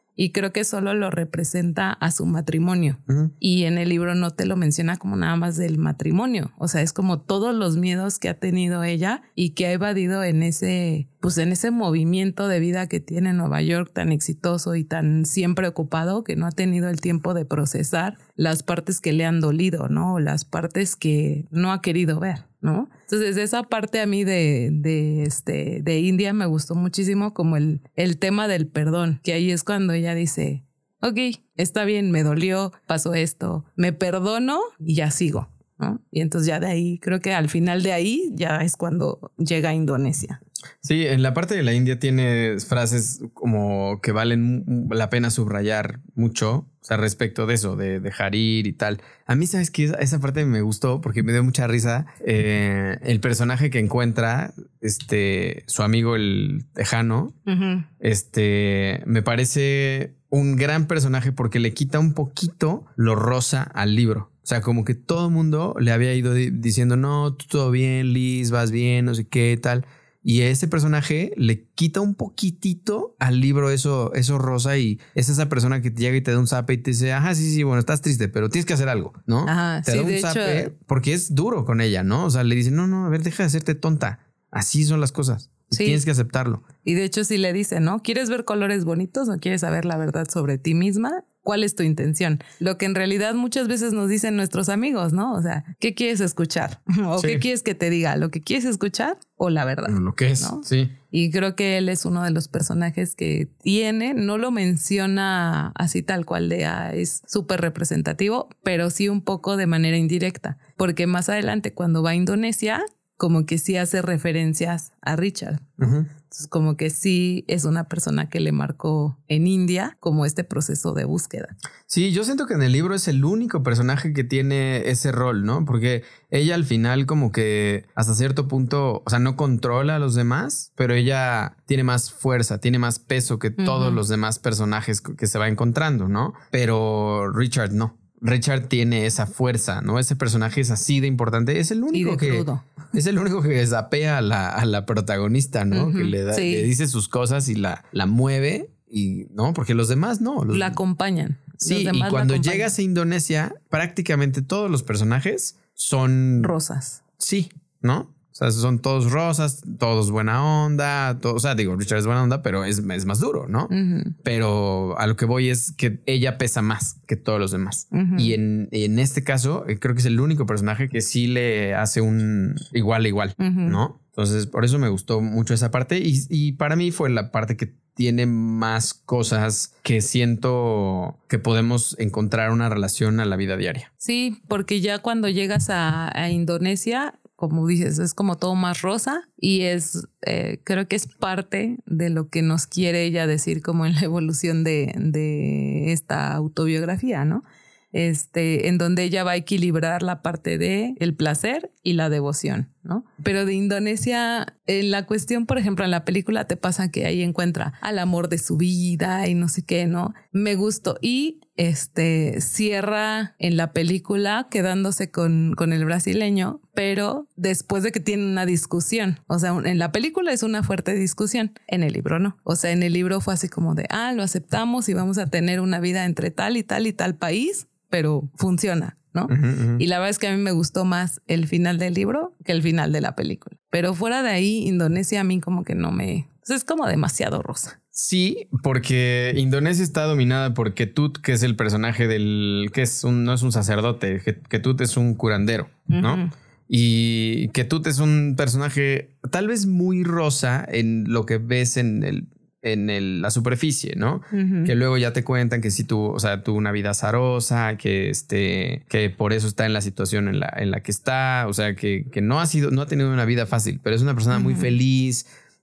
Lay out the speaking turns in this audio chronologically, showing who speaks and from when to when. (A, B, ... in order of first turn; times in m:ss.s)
0:00.2-0:40.4 A
0:40.8-0:57.4 B
0:57.5-0:57.9 A
0:58.0-1:26.6 B
1:19.4-1:20.7 A
1:25.7-1:26.0 A
1:26.8-1:55.6 A
1:37.2-1:37.4 B
1:39.8-1:40.9 B
1:55.8-1:56.1 B
1:56.2-2:01.5 A
2:01.9-2:30.8 B
2:13.6-2:14.0 A
2:21.9-2:22.6 A
2:25.7-2:26.7 A
2:30.5-2:32.7 A
2:31.6-2:36.5 B
2:36.4-2:37.0 A
2:37.2-2:43.7 B
2:43.7-2:44.1 A
2:44.2-3:03.9 B
2:47.9-2:48.4 A
2:53.4-2:53.8 A
3:04.0-3:57.8 A
3:49.3-3:49.8 B
3:57.9-4:25.3 B
4:05.9-4:06.3 A
4:14.3-4:14.7 A
4:24.3-4:24.7 A